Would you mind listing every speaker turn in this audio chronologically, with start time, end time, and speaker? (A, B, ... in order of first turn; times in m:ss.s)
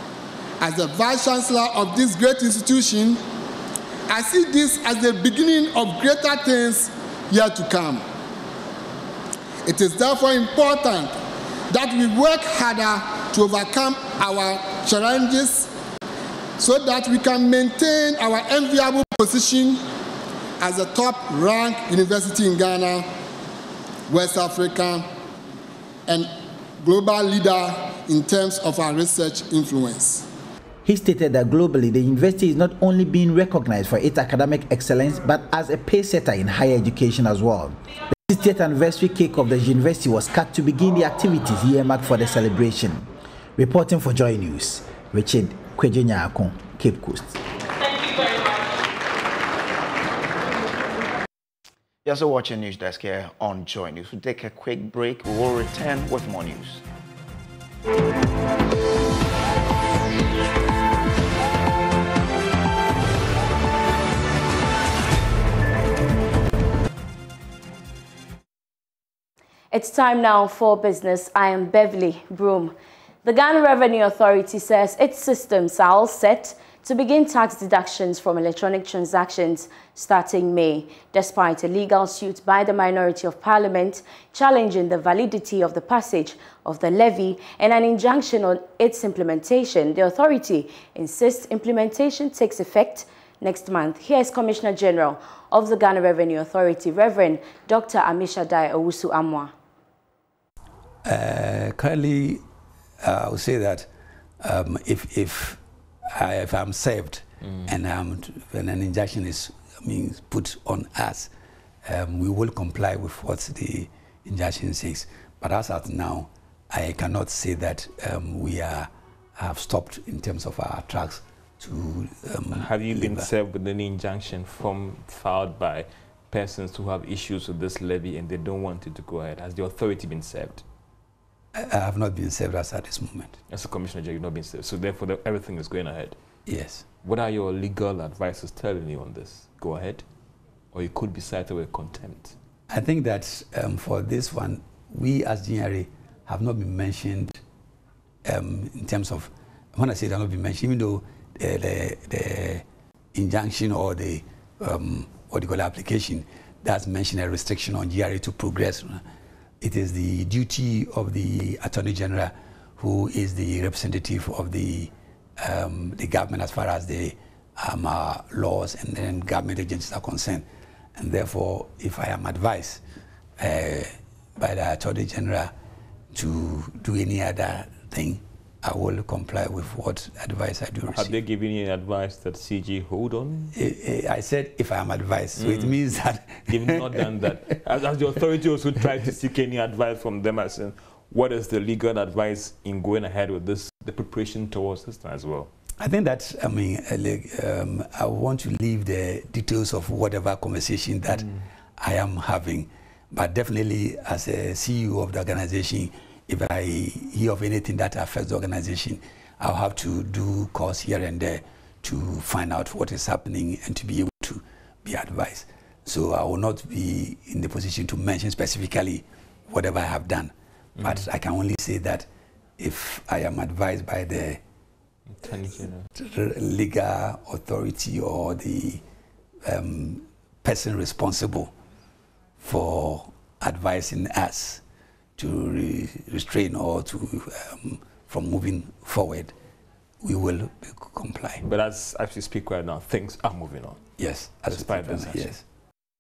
0:00.6-0:03.2 A
0:04.1-0:08.0 A
0:09.7-0:11.1 A
0:11.7-0:15.7 A
0:16.6-0:19.8 A
0:20.6-0:23.1 A
0:24.1-0:25.1 A
0:26.1-0:30.3 A
0:30.9-0:47.4 B
0:52.0-0:56.8 C
1:09.7-1:39.5 D
1:41.0-1:42.4 E
1:43.0-1:43.9 E
1:44.4-1:45.6 E
1:46.2-1:51.3 E
1:47.4-1:47.8 F
1:51.8-2:03.3 E
2:02.5-2:10.6 F
2:11.6-2:13.4 E
2:13.5-2:16.2 F
2:16.5-2:16.9 E
2:17.0-2:20.0 F
2:20.7-2:22.4 F
2:22.7-2:27.4 E
2:28.3-2:39.0 E
2:39.6-2:50.4 E
2:51.0-2:52.8 E
2:53.4-2:55.5 E
2:56.1-3:01.1 E
3:00.9-3:03.5 F
3:03.5-3:07.1 E
3:05.4-3:05.8 F
3:06.5-3:15.5 F
3:15.8-3:42.1 E
3:40.8-3:41.1 F
3:42.6-3:44.4 E
3:45.1-3:45.9 F
3:46.0-3:48.8 E
3:49.4-3:51.5 E
3:52.4-3:54.6 E
3:55.2-3:59.3 E
4:00.0-4:01.4 E
4:01.4-4:03.8 F
4:04.0-4:05.4 E
4:04.5-4:05.3 F